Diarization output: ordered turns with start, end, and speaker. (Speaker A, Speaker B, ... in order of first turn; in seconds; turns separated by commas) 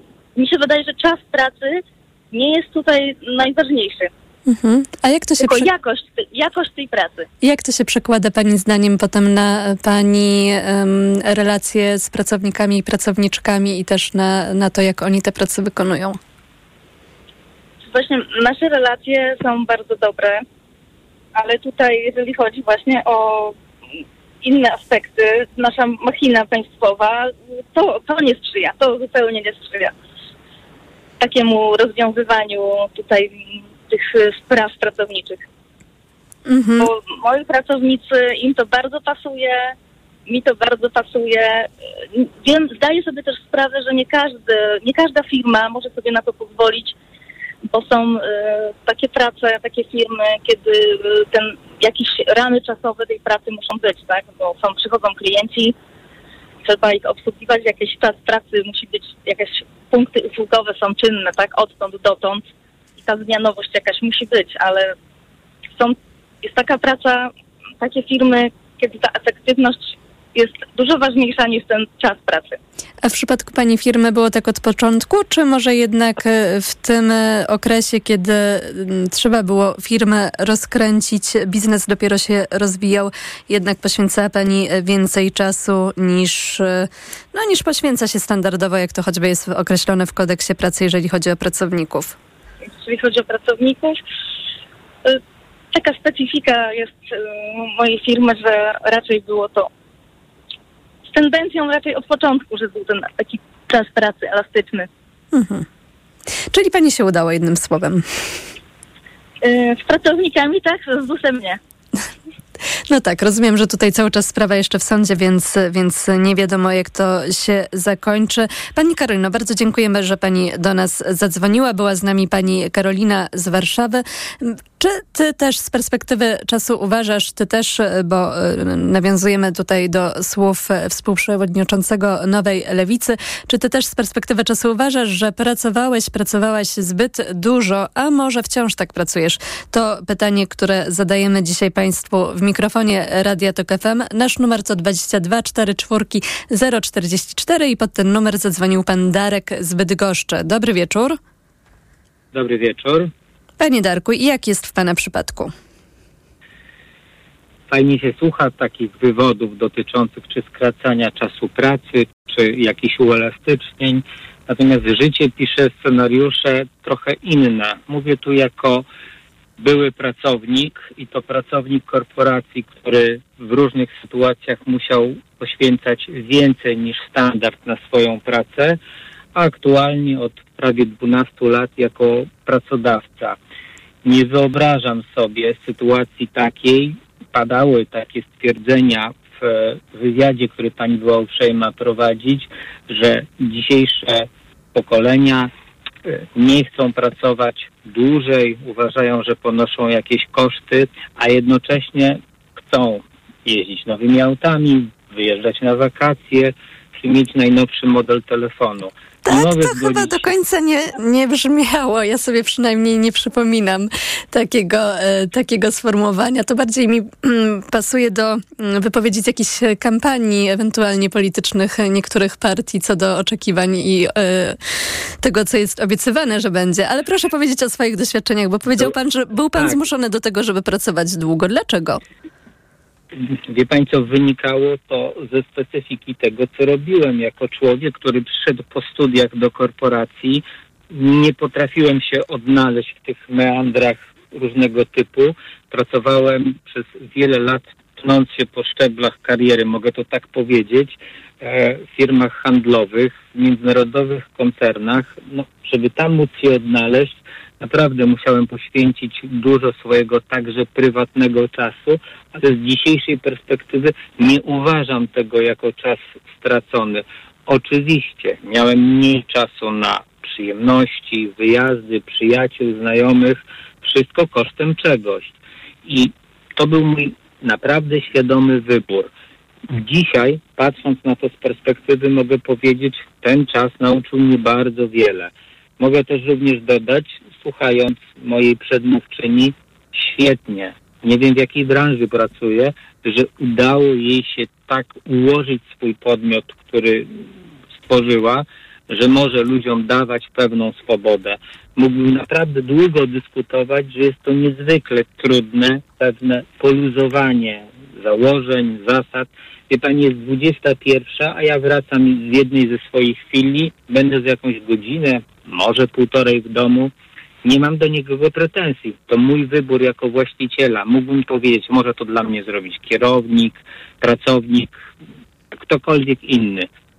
Speaker A: 0.3-4.1, Speaker B: 4.5-5.7, Speaker A: 5.4-7.2, Speaker B: 7.4-16.2, Speaker A: 17.9-20.4, Speaker A: 21.4-23.5, Speaker A: 24.4-29.9, Speaker A: 31.2-35.4, Speaker B: 36.5-36.9, Speaker A: 36.8-39.7, Speaker A: 40.3-46.9, Speaker A: 47.7-55.7, Speaker A: 56.6-62.5, Speaker A: 63.0-64.9, Speaker A: 65.8-67.3, Speaker A: 67.8-72.6, Speaker B: 73.0-92.1, Speaker A: 92.8-94.0, Speaker A: 95.7-99.7, Speaker A: 101.1-104.9, Speaker B: 105.3-105.7, Speaker B: 106.5-108.0, Speaker A: 109.4-111.6, Speaker B: 112.9-151.2, Speaker C: 152.3-153.1, Speaker B: 153.6-155.5, Speaker C: 157.7-168.8, Speaker C: 169.6-178.8, Speaker C: 179.3-183.4, Speaker C: 184.0-195.5, Speaker C: 196.1-210.3, Speaker B: 209.2-224.6, Speaker B: 225.2-232.0, Speaker C: 233.2-279.1, Speaker C: 279.7-297.2, Speaker C: 297.8-316.9, Speaker C: 317.4-324.8, Speaker C: 325.6-326.7